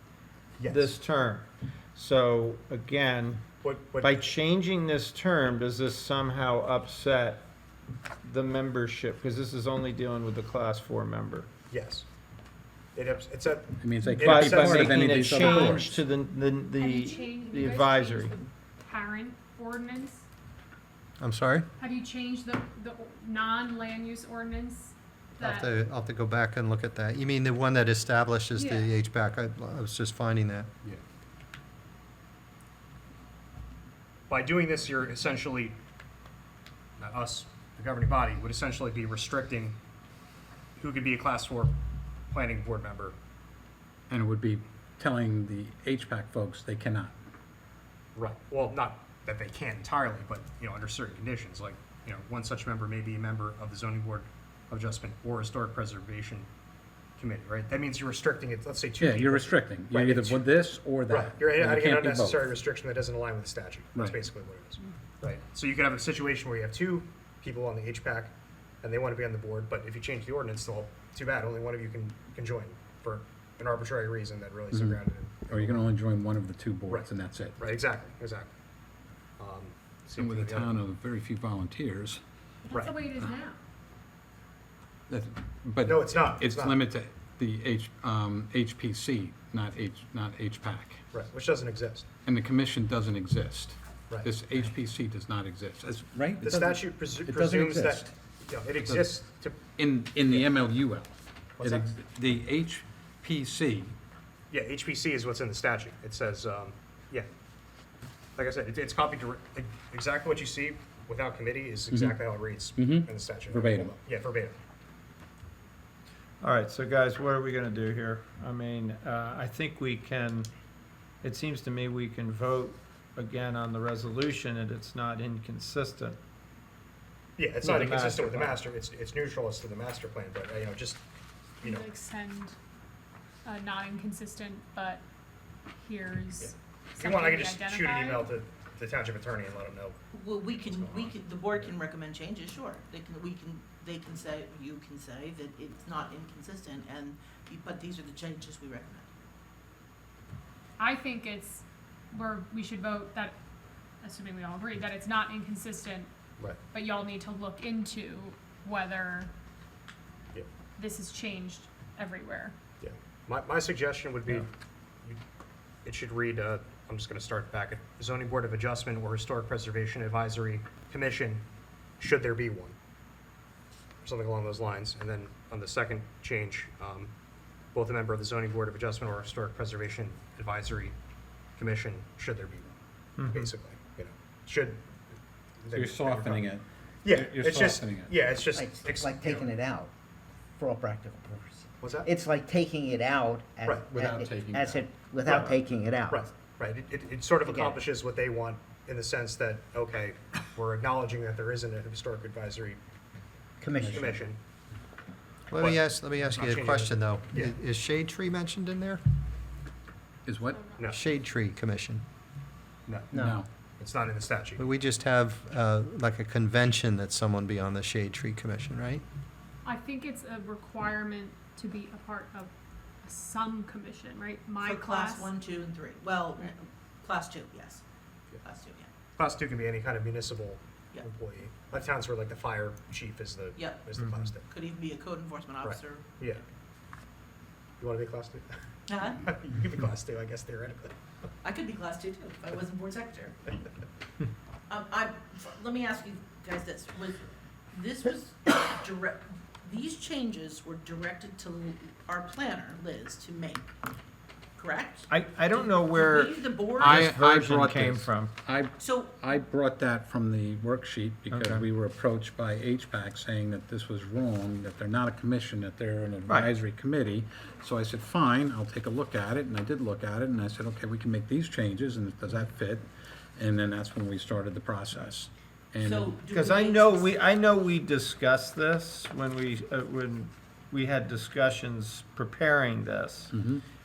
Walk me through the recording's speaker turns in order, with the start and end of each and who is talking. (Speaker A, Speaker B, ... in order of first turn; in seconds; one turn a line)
Speaker A: 0.6-0.9
Speaker B: 0.7-3.4
Speaker A: 3.6-4.2
Speaker B: 4.0-7.4
Speaker B: 8.2-11.5
Speaker A: 11.7-12.1
Speaker A: 12.9-15.5
Speaker C: 13.8-16.0
Speaker B: 14.2-18.3
Speaker D: 15.4-15.8
Speaker D: 16.8-20.2
Speaker E: 21.2-21.6
Speaker D: 21.8-25.7
Speaker E: 25.4-30.7
Speaker D: 28.5-28.9
Speaker A: 34.3-35.8
Speaker A: 37.0-39.8
Speaker A: 40.8-41.8
Speaker A: 42.3-43.1
Speaker C: 44.1-47.1
Speaker A: 48.1-56.5
Speaker A: 57.2-60.4
Speaker C: 59.0-62.5
Speaker A: 61.1-75.8
Speaker C: 63.9-64.2
Speaker C: 74.7-77.6
Speaker A: 76.8-78.5
Speaker A: 79.4-80.7
Speaker C: 80.2-82.2
Speaker D: 82.6-83.5
Speaker A: 82.7-83.0
Speaker C: 85.1-91.0
Speaker A: 85.8-86.8
Speaker A: 91.1-92.0
Speaker C: 92.2-98.1
Speaker A: 96.4-99.6
Speaker C: 98.8-99.2
Speaker C: 99.7-103.9
Speaker A: 101.6-101.9
Speaker A: 104.5-107.3
Speaker A: 108.4-114.6
Speaker C: 111.9-113.9
Speaker B: 116.4-120.5
Speaker B: 121.2-126.2
Speaker A: 127.4-131.0
Speaker B: 127.6-128.6
Speaker A: 131.6-131.9
Speaker D: 131.6-132.5
Speaker D: 133.4-135.0
Speaker D: 135.8-138.3
Speaker A: 136.4-139.9
Speaker F: 140.1-149.1
Speaker A: 140.6-141.7
Speaker D: 150.8-153.3
Speaker D: 154.0-156.1
Speaker D: 156.7-159.3
Speaker D: 160.8-162.5
Speaker A: 162.8-164.5
Speaker A: 165.8-171.4
Speaker A: 172.0-172.8
Speaker A: 174.0-177.1
Speaker A: 177.7-180.9
Speaker A: 181.6-184.8
Speaker B: 183.2-183.5
Speaker A: 185.6-186.5
Speaker C: 185.7-188.2
Speaker A: 187.0-189.5
Speaker G: 188.5-189.9
Speaker G: 190.6-196.3
Speaker A: 191.8-192.1
Speaker A: 193.7-193.9
Speaker C: 193.9-194.8
Speaker A: 196.1-202.8
Speaker G: 197.4-197.8
Speaker G: 203.6-204.2
Speaker A: 203.8-204.4
Speaker E: 205.5-209.0
Speaker A: 205.5-207.6
Speaker C: 210.2-210.7
Speaker D: 210.4-210.9
Speaker E: 210.8-212.0
Speaker G: 213.1-213.4
Speaker C: 213.2-213.4
Speaker A: 213.8-214.6
Speaker E: 214.6-219.0
Speaker D: 219.6-222.5
Speaker D: 223.0-225.3
Speaker F: 224.6-227.8
Speaker F: 228.4-228.9
Speaker A: 229.2-234.5
Speaker F: 233.6-236.2
Speaker B: 234.0-234.3
Speaker A: 235.6-236.4
Speaker A: 237.8-238.5
Speaker F: 238.9-239.2
Speaker A: 239.2-240.9
Speaker F: 241.4-243.5
Speaker F: 244.7-253.7
Speaker F: 254.6-257.1
Speaker B: 255.1-258.3
Speaker C: 256.8-276.2
Speaker F: 258.8-259.1
Speaker B: 261.3-261.6
Speaker F: 275.8-277.1
Speaker B: 276.3-283.3
Speaker C: 283.3-283.6